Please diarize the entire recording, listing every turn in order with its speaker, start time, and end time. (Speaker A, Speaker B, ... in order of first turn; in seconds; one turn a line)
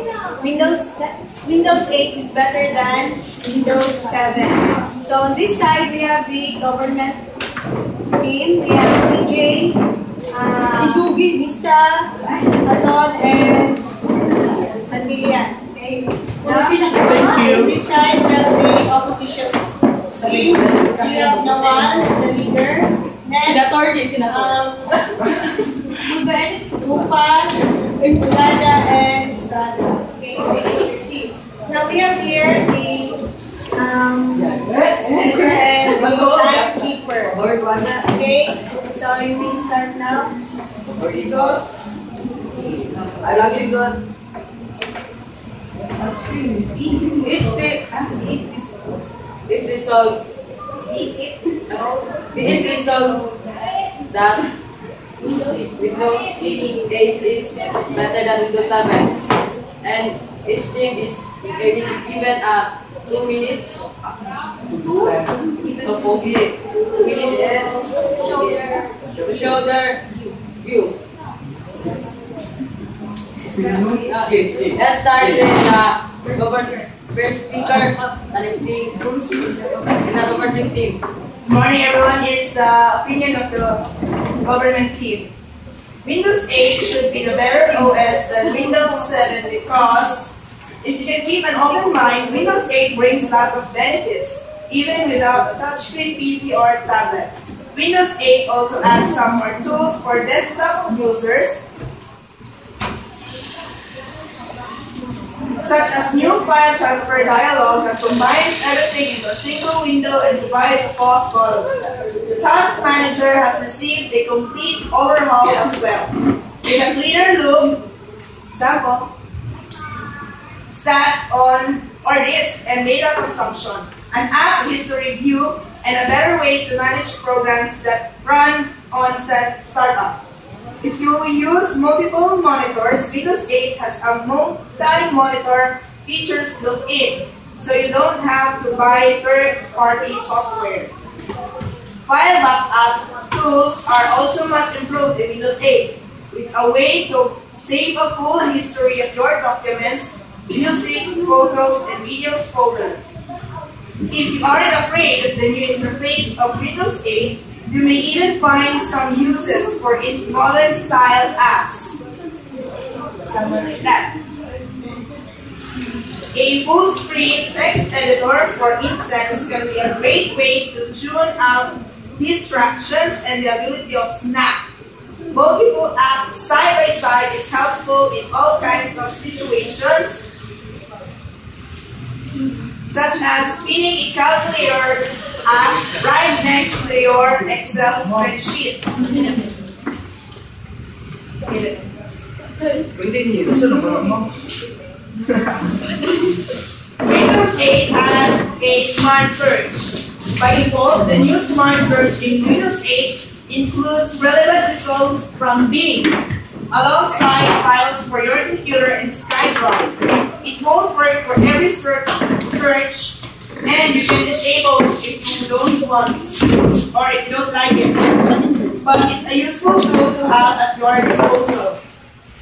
Speaker A: 0.4-7.2
Speaker A: 8.2-9.8
Speaker A: 10.3-12.1
Speaker B: 10.8-11.4
Speaker A: 12.6-19.6
Speaker B: 16.5-17.0
Speaker C: 17.2-17.7
Speaker A: 20.2-23.7
Speaker B: 20.2-21.9
Speaker B: 23.5-24.5
Speaker A: 24.2-25.0
Speaker A: 26.0-33.1
Speaker B: 26.1-26.5
Speaker A: 33.8-37.4
Speaker D: 35.8-36.7
Speaker D: 37.3-38.1
Speaker A: 38.1-40.3
Speaker D: 41.0-41.6
Speaker A: 41.0-41.6
Speaker D: 43.2-44.0
Speaker A: 46.0-47.4
Speaker B: 47.2-48.1
Speaker A: 48.1-48.7
Speaker B: 49.5-50.2
Speaker A: 50.8-53.6
Speaker B: 52.3-53.2
Speaker B: 54.1-54.5
Speaker A: 55.2-55.7
Speaker B: 55.7-59.2
Speaker B: 59.8-63.8
Speaker D: 64.8-66.6
Speaker B: 67.0-71.0
Speaker D: 68.0-68.6
Speaker D: 73.5-75.5
Speaker B: 74.1-79.0
Speaker B: 79.9-81.0
Speaker C: 81.5-83.8
Speaker C: 84.4-85.3
Speaker C: 86.0-101.6
Speaker C: 105.6-111.7
Speaker C: 112.4-116.1
Speaker C: 116.6-117.8
Speaker C: 118.5-119.1
Speaker C: 120.7-130.2
Speaker C: 130.8-140.9
Speaker C: 142.1-153.2
Speaker C: 154.1-162.0
Speaker C: 163.2-164.1
Speaker C: 166.3-174.7
Speaker C: 175.3-180.3
Speaker C: 182.8-188.9
Speaker C: 191.5-191.8
Speaker D: 192.9-194.2
Speaker C: 197.0-206.2
Speaker C: 206.7-216.4
Speaker C: 216.9-218.0
Speaker C: 218.8-221.8